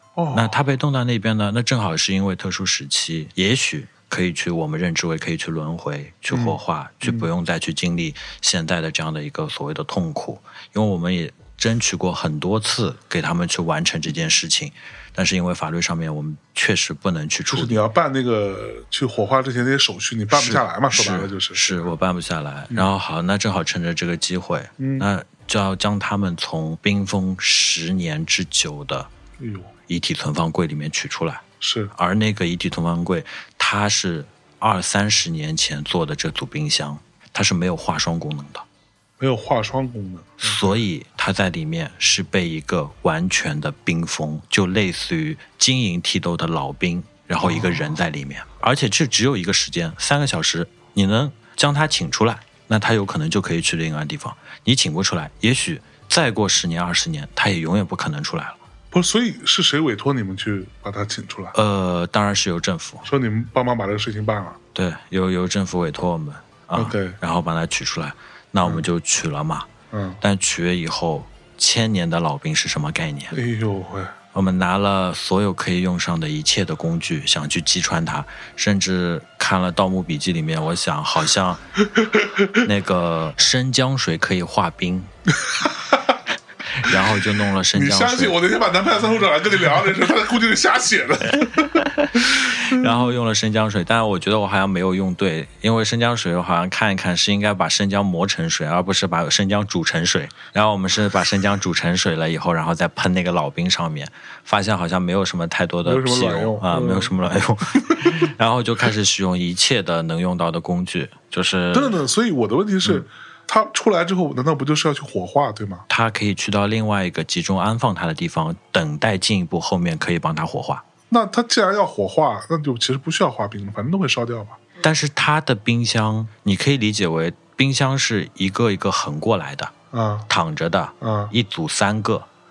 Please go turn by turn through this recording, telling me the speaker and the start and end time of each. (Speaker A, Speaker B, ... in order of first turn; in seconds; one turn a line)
Speaker A: 0.2-0.6
Speaker B: 0.3-17.8
Speaker A: 6.3-7.3
Speaker A: 17.5-21.7
Speaker B: 20.3-29.1
Speaker A: 24.8-25.1
Speaker A: 29.4-29.7
Speaker B: 29.9-31.4
Speaker A: 31.6-31.9
Speaker B: 32.0-38.6
Speaker A: 39.2-40.8
Speaker B: 40.4-58.6
Speaker A: 47.4-48.0
Speaker A: 58.9-61.5
Speaker B: 61.5-63.0
Speaker A: 63.0-64.6
Speaker B: 64.8-69.7
Speaker A: 66.7-67.2
Speaker A: 69.9-70.2
Speaker B: 70.2-73.4
Speaker A: 73.3-74.1
Speaker B: 74.3-81.6
Speaker A: 82.0-82.5
Speaker B: 82.6-85.1
Speaker A: 85.5-86.0
Speaker B: 86.8-88.4
Speaker A: 87.7-91.8
Speaker B: 91.8-112.0
Speaker A: 92.3-93.1
Speaker A: 105.8-107.1
Speaker A: 111.7-115.8
Speaker B: 115.9-120.8
Speaker A: 121.1-124.6
Speaker B: 124.8-129.7
Speaker A: 129.9-130.3
Speaker B: 130.3-132.3
Speaker A: 131.0-131.3